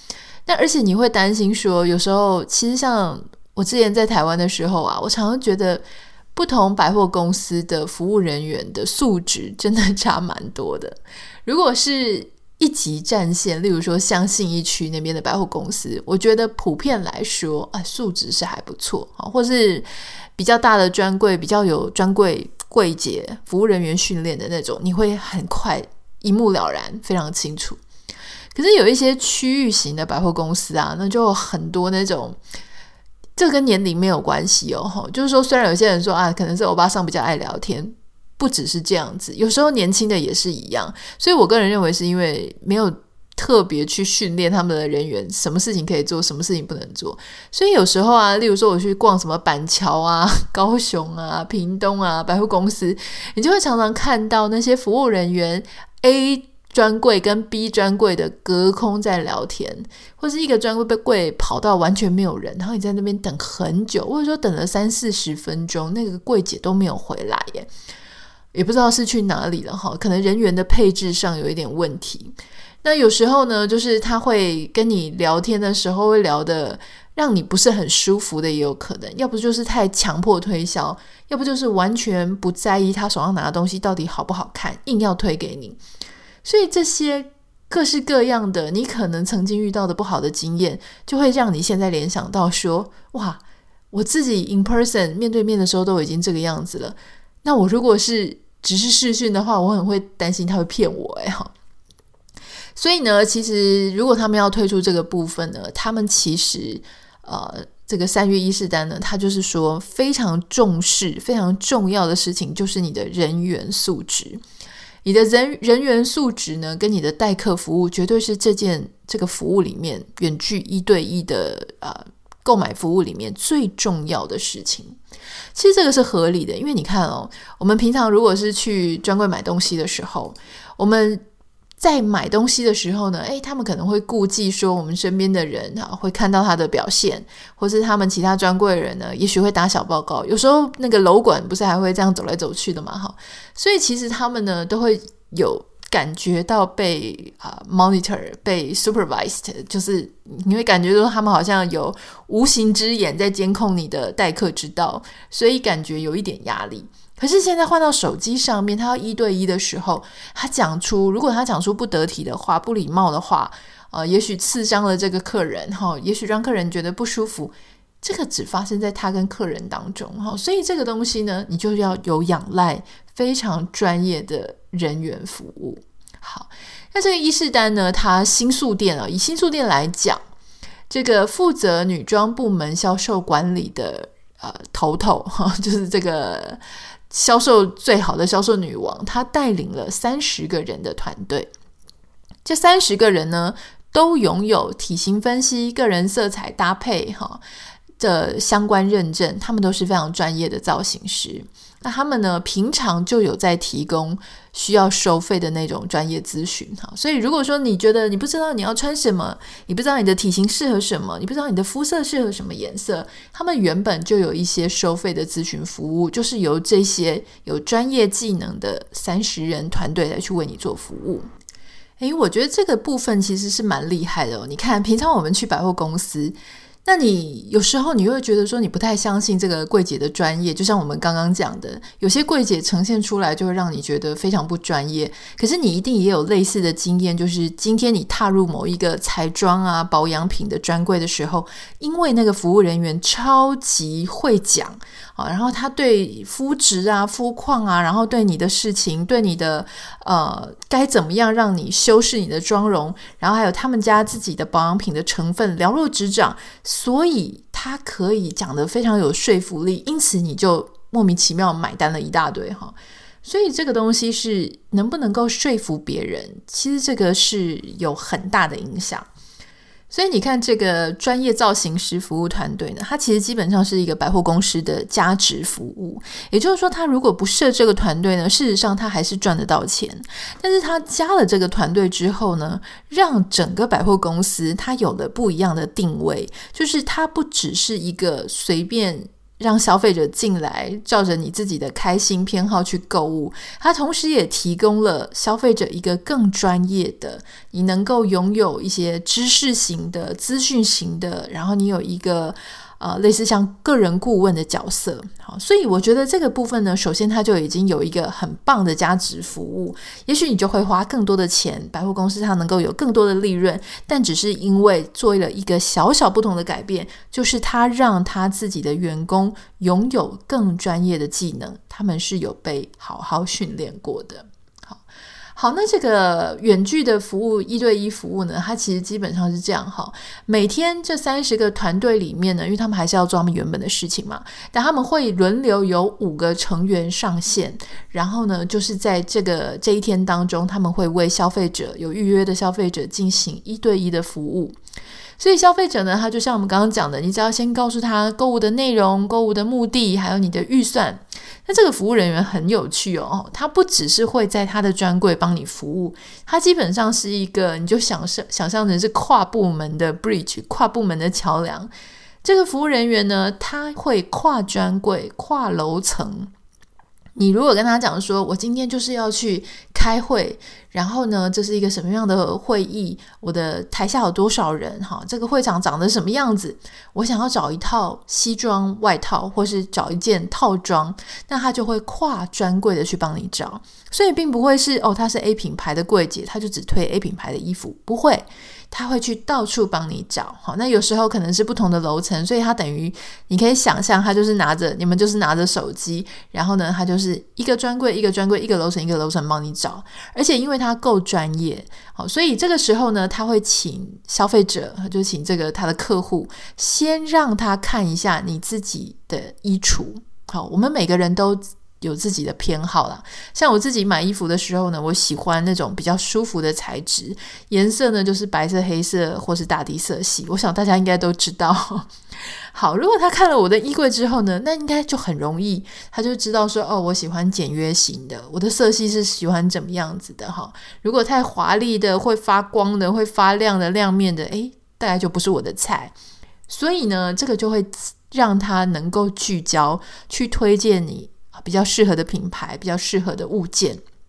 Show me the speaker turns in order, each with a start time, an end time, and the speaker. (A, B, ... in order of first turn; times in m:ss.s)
0:00.5-0:05.8 A
0:06.3-0:19.8 A
0:20.4-0:27.8 A
0:28.5-0:32.4 A
0:33.4-1:07.7 A
1:08.5-1:25.8 A
1:26.4-1:33.4 A
1:33.9-1:41.5 A
1:42.8-1:54.4 A
1:55.0-2:05.0 A
2:05.6-2:11.2 A
2:11.8-3:00.2 A
3:00.9-3:11.5 A
3:12.4-3:17.4 A
3:18.0-3:41.3 A
3:42.0-4:29.1 A
4:29.9-5:24.8 A
5:25.4-5:44.6 A
5:45.2-6:01.7 A
6:02.2-6:06.3 A
6:07.2-7:01.9 A
7:02.5-7:15.9 A
7:16.5-7:23.8 A